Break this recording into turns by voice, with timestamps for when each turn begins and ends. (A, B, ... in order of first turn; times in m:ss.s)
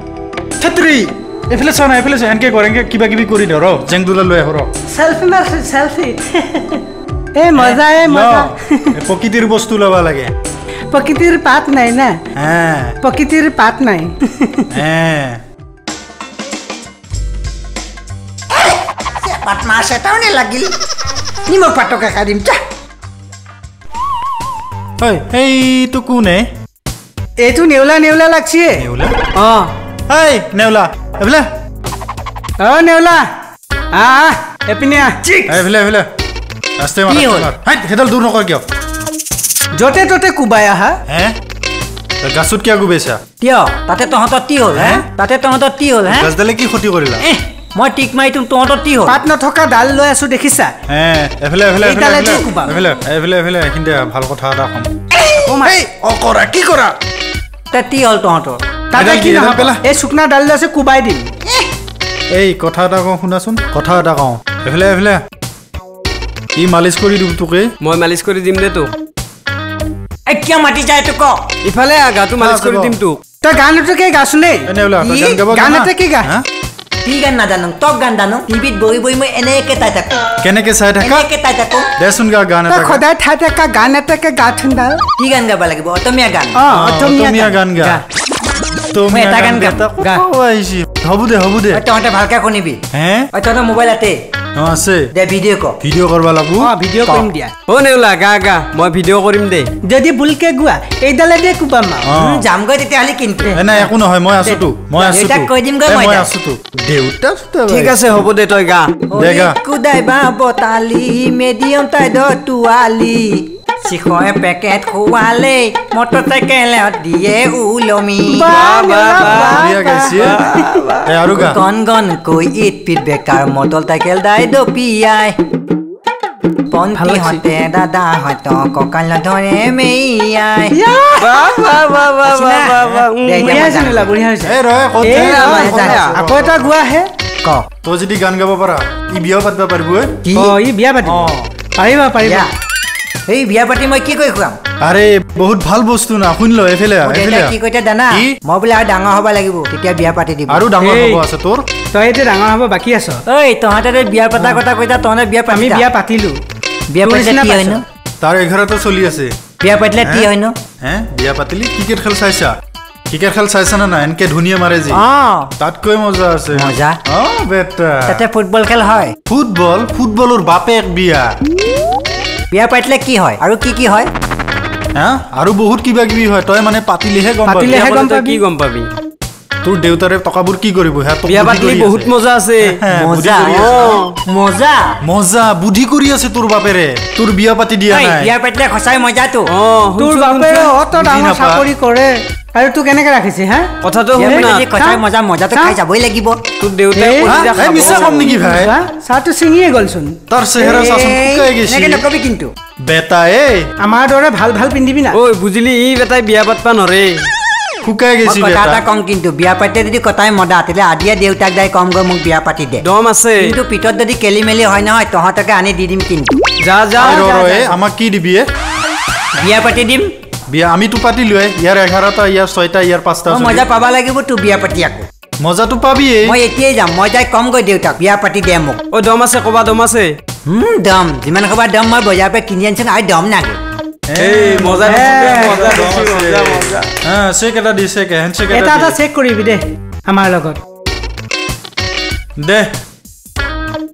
0:00.6-0:04.7 A
0:04.9-0:06.8 B
0:07.3-0:08.8 B
0:07.5-0:10.3 A
0:10.9-0:12.2 B
0:12.4-0:13.0 A
0:13.0-0:14.6 B
0:14.7-0:15.4 A
0:18.5-0:20.7 C
0:21.5-0:22.6 C
0:25.0-0:26.5 A
0:27.4-0:28.8 B
0:28.7-0:29.2 A
0:29.4-0:29.7 B
0:30.1-0:31.5 A
0:32.6-0:33.2 B
0:33.9-0:35.5 B
0:35.5-0:36.1 A
0:36.8-0:38.6 A
0:37.1-0:37.5 C
0:39.7-0:41.0 B
0:41.1-0:41.3 A
0:42.2-0:43.2 A
0:43.4-0:46.3 C
0:44.7-0:45.0 A
0:46.1-0:47.2 A
0:47.2-0:49.2 C
0:49.1-0:50.7 B
0:50.9-0:54.9 A
0:51.8-0:52.7 B
0:55.4-0:55.8 B
0:55.6-0:56.9 A
0:57.7-0:58.6 C
0:58.9-1:01.3 B
0:58.9-0:59.8 A
1:02.3-1:05.2 A
1:06.5-1:07.7 A
1:07.8-1:08.9 D
1:10.3-1:11.4 C
1:11.6-1:13.2 D
1:12.4-1:13.0 A
1:13.4-1:14.7 B
1:14.6-1:16.4 A
1:15.0-1:15.4 C
1:15.5-1:16.3 B
1:17.0-1:20.2 C
1:20.4-1:21.3 A
1:21.0-1:21.9 C
1:22.0-1:23.0 A
1:22.7-1:25.0 B
1:25.2-1:26.6 C
1:26.6-1:28.0 B
1:26.6-1:28.0 A
1:28.9-1:31.8 A
1:29.1-1:29.8 C
1:31.7-1:32.8 C
1:32.9-1:33.3 A
1:33.3-1:34.2 C
1:34.6-1:35.0 A
1:35.1-1:35.8 C
1:35.8-1:36.7 A
1:36.6-1:37.5 B
1:37.7-1:39.7 D
1:39.8-1:42.0 B
1:42.0-1:42.5 A
1:42.2-1:43.5 C
1:43.5-1:43.9 B
1:43.5-1:48.2 A
1:45.0-1:46.3 C
1:47.7-1:48.9 D
1:49.1-1:58.6 C
1:49.2-1:49.5 A
1:58.3-2:00.6 B
1:58.4-2:01.1 D
1:59.3-2:00.5 A
2:01.1-2:01.6 A
2:01.3-2:05.4 C
2:06.7-2:10.8 C
2:07.0-2:07.4 B
2:10.7-2:11.4 B
2:11.2-2:13.8 D
2:12.2-2:14.1 C
2:12.8-2:13.1 A
2:13.4-2:17.1 B
2:14.4-2:16.8 A
2:15.3-2:16.1 C
2:15.3-2:16.2 D
2:17.8-2:20.2 A
2:20.2-2:20.6 C
2:20.4-2:22.4 B
2:21.0-2:21.5 A
2:22.2-2:22.5 C
2:23.3-2:24.6 C
2:24.8-2:27.5 A
2:27.0-2:30.6 C
2:30.5-2:31.6 A
2:30.8-2:31.2 D
2:31.9-2:33.2 B
2:33.3-2:35.8 C
2:35.5-2:36.4 B
2:36.9-2:37.8 C
2:37.0-2:37.8 B
2:38.2-2:39.3 A
2:39.6-2:40.5 C
2:40.0-2:40.3 A
2:40.8-2:42.5 A
2:43.1-2:45.0 A
2:44.9-2:45.5 C
2:45.6-2:48.2 A
2:46.5-2:47.0 C
2:48.1-2:49.1 C
2:49.3-2:51.3 A
2:52.5-2:54.1 C
2:55.0-2:57.9 A
2:57.5-2:58.4 B
2:57.6-2:58.9 D
2:59.6-3:04.0 A
3:01.2-3:02.8 D
3:02.9-3:04.9 C
3:03.5-3:04.1 D
3:05.0-3:08.3 A
3:07.9-3:09.5 C
3:09.5-3:10.9 D
3:10.0-3:13.7 B
3:10.9-3:11.7 A
3:13.8-3:14.7 D
3:14.2-3:16.4 C
3:14.3-3:15.0 B
3:16.6-3:18.2 D
3:17.0-3:17.3 B
3:17.2-3:18.7 A
3:18.1-3:20.2 B
3:20.3-3:22.0 A
3:20.6-3:22.5 C
3:22.8-3:23.7 A
3:23.8-3:25.2 B
3:25.1-3:27.3 D
3:27.8-3:28.8 A
3:28.2-3:32.8 C
3:32.8-3:33.5 D
3:33.4-3:36.3 C
3:36.6-3:37.2 D
3:36.9-3:38.5 A
3:37.2-3:37.7 B
3:39.4-3:40.1 C
3:40.5-3:43.6 A
3:43.3-3:45.1 C
3:45.4-3:46.4 A
3:46.2-3:48.8 C
3:48.9-3:50.2 D
3:50.4-3:53.6 C
3:54.1-3:59.0 A
3:54.2-3:56.8 D
3:54.9-3:55.7 B
3:58.5-4:00.6 B
4:02.4-4:02.7 A